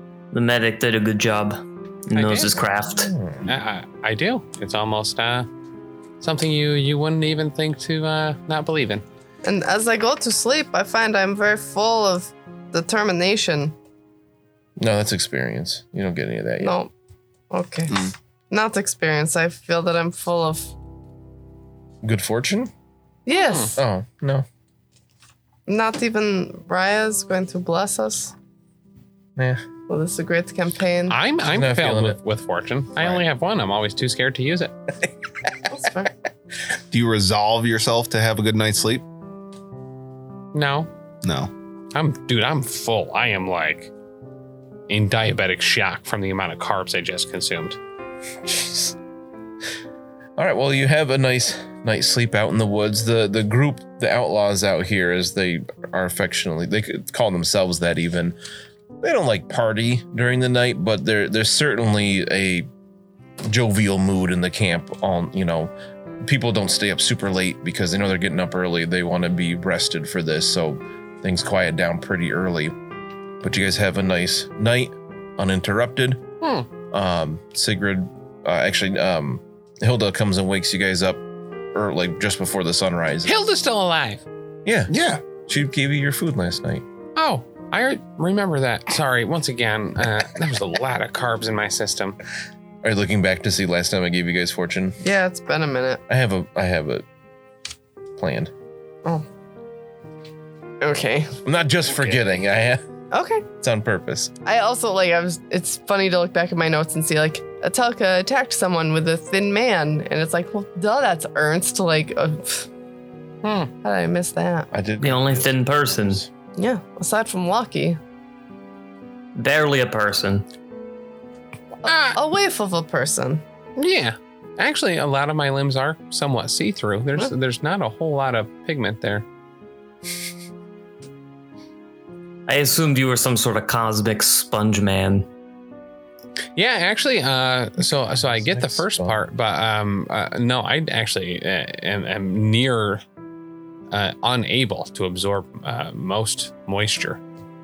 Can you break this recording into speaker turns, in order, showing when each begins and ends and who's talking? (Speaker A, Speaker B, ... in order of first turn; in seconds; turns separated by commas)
Speaker A: 0.3-3.1, Speaker B: 2.1-2.5, Speaker C: 2.9-3.5, Speaker B: 3.4-5.5, Speaker B: 6.2-9.0, Speaker D: 9.4-13.7, Speaker C: 14.8-16.7, Speaker D: 16.6-16.9, Speaker D: 17.5-20.7, Speaker C: 22.0-22.7, Speaker D: 23.2-23.8, Speaker B: 23.3-23.7, Speaker C: 23.8-24.4, Speaker D: 25.7-28.3, Speaker C: 29.4-29.6, Speaker D: 29.9-31.2, Speaker B: 31.1-34.7, Speaker C: 31.4-32.2, Speaker C: 33.0-33.2, Speaker D: 35.7-36.1, Speaker E: 36.9-39.0, Speaker B: 40.5-40.9, Speaker E: 41.2-41.5, Speaker B: 41.9-43.9, Speaker B: 44.9-47.8, Speaker C: 48.4-49.0, Speaker C: 50.4-58.4, Speaker C: 59.0-62.7, Speaker C: 63.5-65.7, Speaker C: 66.2-72.7, Speaker C: 73.4-76.3, Speaker B: 76.4-76.7, Speaker C: 76.9-83.4, Speaker B: 83.2-84.2, Speaker C: 84.6-86.8, Speaker E: 84.9-85.2, Speaker B: 87.2-92.2, Speaker C: 92.8-95.0, Speaker D: 95.0-96.0, Speaker C: 96.1-97.0, Speaker C: 98.2-98.5, Speaker D: 100.8-101.3, Speaker C: 101.4-102.8, Speaker D: 103.1-103.5, Speaker C: 103.6-104.3, Speaker D: 104.4-112.7, Speaker B: 113.4-113.7, Speaker D: 113.8-114.7, Speaker C: 114.7-116.3, Speaker A: 115.0-116.2, Speaker D: 116.6-118.0, Speaker A: 119.3-120.5, Speaker D: 121.8-123.4, Speaker B: 121.8-122.2, Speaker B: 123.8-129.2, Speaker A: 132.5-135.3, Speaker B: 136.6-143.0, Speaker C: 138.3-139.2, Speaker B: 143.9-147.2